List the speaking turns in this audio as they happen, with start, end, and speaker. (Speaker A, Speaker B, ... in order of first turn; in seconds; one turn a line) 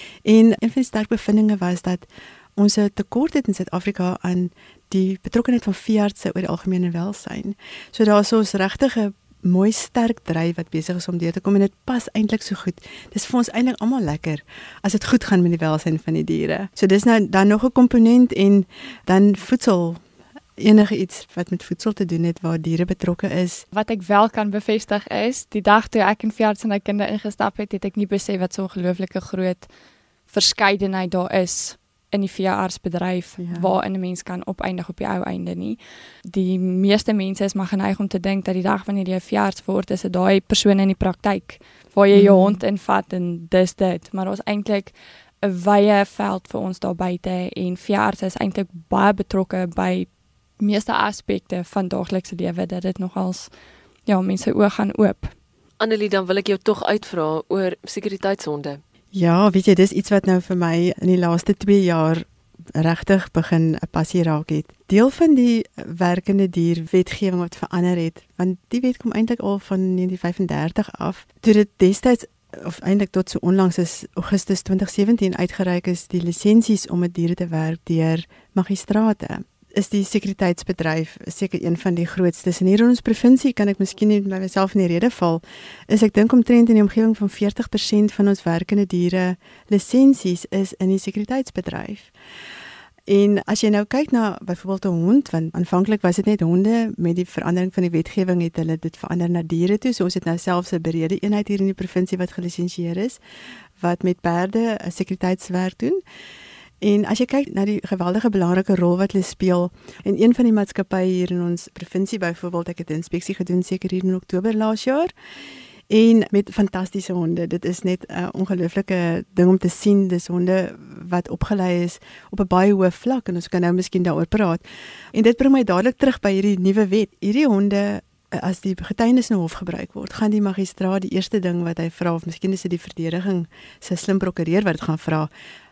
Speaker A: 0.2-20.0
Speaker A: 20.6-23.6
Speaker B: 23.7-29.7
Speaker B: 30.3-53.5
Speaker A: 33.4-33.7
Speaker A: 42.1-42.6
Speaker B: 54.1-55.3
Speaker C: 55.8-58.8
Speaker A: 59.1-62.2
Speaker A: 62.8-92.1
Speaker A: 93.1-103.2
Speaker A: 103.8-106.0
Speaker A: 106.8-115.1
Speaker A: 115.9-135.3